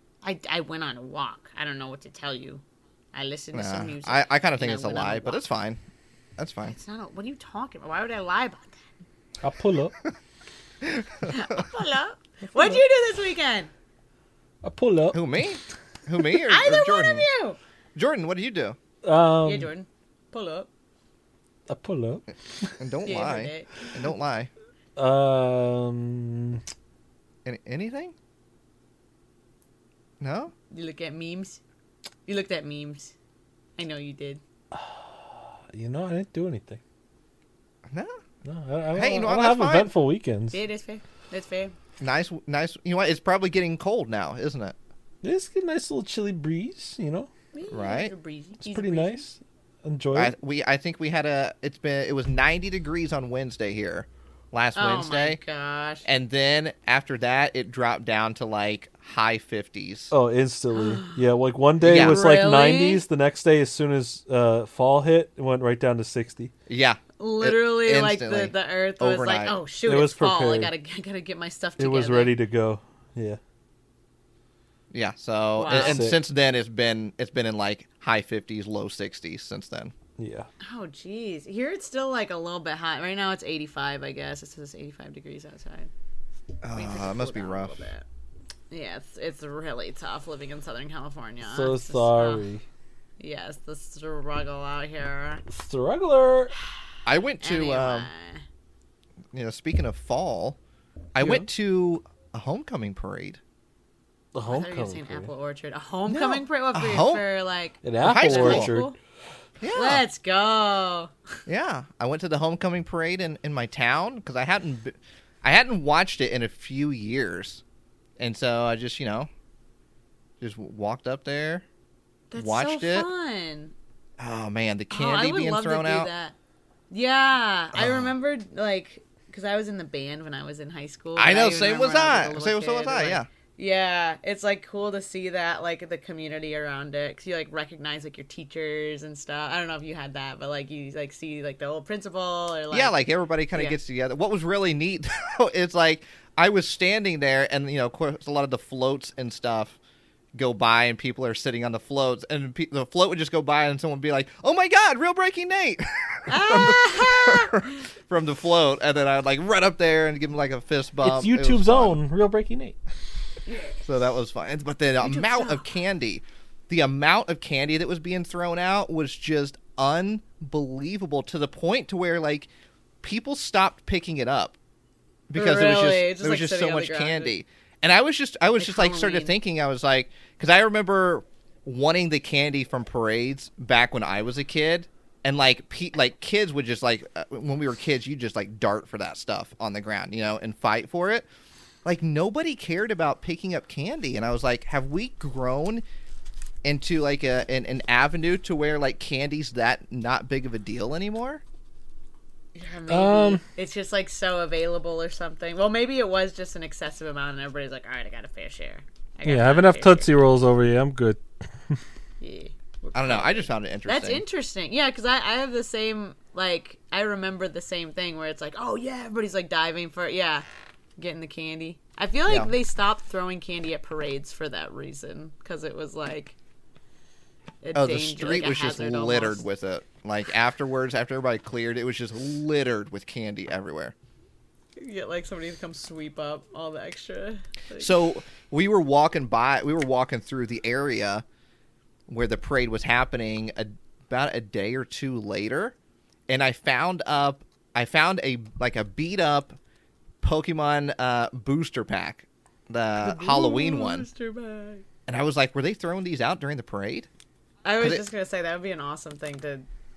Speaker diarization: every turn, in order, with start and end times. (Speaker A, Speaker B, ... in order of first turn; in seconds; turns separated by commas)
Speaker A: 0.2-2.6, Speaker A: 3.1-5.4, Speaker B: 3.5-5.8, Speaker B: 6.4-6.8, Speaker A: 6.6-8.8, Speaker C: 9.4-9.9, Speaker B: 10.8-11.6, Speaker A: 11.3-13.7, Speaker C: 14.6-15.2, Speaker B: 15.1-17.2, Speaker A: 16.5-17.6, Speaker B: 17.9-18.8, Speaker C: 19.0-19.7, Speaker A: 19.4-20.7, Speaker C: 21.7-22.8, Speaker B: 22.8-24.5, Speaker A: 23.0-23.7, Speaker C: 25.0-26.6, Speaker B: 27.4-28.1, Speaker B: 30.2-30.5, Speaker A: 30.7-31.6, Speaker A: 32.3-33.1, Speaker A: 33.8-34.4, Speaker C: 34.7-36.8, Speaker B: 37.9-38.2, Speaker C: 38.4-40.6, Speaker B: 38.9-39.9, Speaker A: 40.5-41.7, Speaker B: 42.0-44.8, Speaker C: 45.2-47.3, Speaker A: 47.5-49.2, Speaker B: 47.7-48.1, Speaker C: 48.6-50.3, Speaker B: 50.1-55.4, Speaker A: 54.8-56.0, Speaker B: 56.0-60.1, Speaker C: 60.1-66.5, Speaker A: 60.7-61.2, Speaker B: 61.8-62.2, Speaker A: 61.9-63.0, Speaker B: 66.7-69.5, Speaker A: 67.2-72.3, Speaker C: 69.8-70.7, Speaker C: 71.8-73.4, Speaker B: 74.9-79.9, Speaker A: 75.5-76.0, Speaker C: 75.7-76.2, Speaker C: 80.2-80.5, Speaker A: 80.6-85.9, Speaker B: 86.6-87.8, Speaker A: 86.7-88.0, Speaker A: 88.7-92.4, Speaker C: 91.4-92.6, Speaker A: 93.2-95.4, Speaker C: 95.5-96.5, Speaker B: 97.0-98.1, Speaker A: 97.4-98.4, Speaker B: 99.3-100.6, Speaker B: 101.1-103.4, Speaker C: 101.2-101.5, Speaker C: 104.3-105.3, Speaker A: 104.5-109.0, Speaker B: 106.0-107.2, Speaker C: 107.8-108.9, Speaker B: 108.0-108.7, Speaker B: 109.6-110.0, Speaker A: 109.7-111.1, Speaker B: 111.5-117.6, Speaker B: 118.2-119.3, Speaker B: 120.4-121.6, Speaker A: 122.3-123.7, Speaker B: 122.3-123.1, Speaker B: 124.2-126.1, Speaker A: 124.9-126.3, Speaker A: 126.9-143.8, Speaker B: 127.7-128.1, Speaker B: 131.2-133.3, Speaker B: 142.7-149.8, Speaker B: 150.3-162.0, Speaker A: 156.3-157.8, Speaker C: 161.0-162.8, Speaker A: 163.5-163.8, Speaker B: 163.8-172.5, Speaker A: 165.0-165.7, Speaker B: 173.0-174.6, Speaker B: 175.3-191.3, Speaker A: 175.3-177.3, Speaker A: 178.6-179.3, Speaker B: 191.8-195.8, Speaker B: 196.6-201.4, Speaker A: 202.5-210.1, Speaker C: 202.9-203.4, Speaker C: 209.2-211.8, Speaker A: 212.2-220.4, Speaker B: 212.9-214.2, Speaker A: 221.0-226.3, Speaker B: 222.3-222.5, Speaker A: 227.6-229.4, Speaker B: 227.7-233.9, Speaker A: 234.8-238.0, Speaker B: 237.8-241.2, Speaker B: 242.1-245.7, Speaker B: 246.3-249.6, Speaker B: 250.2-254.1, Speaker A: 253.0-254.8, Speaker B: 255.1-257.1, Speaker A: 257.6-259.6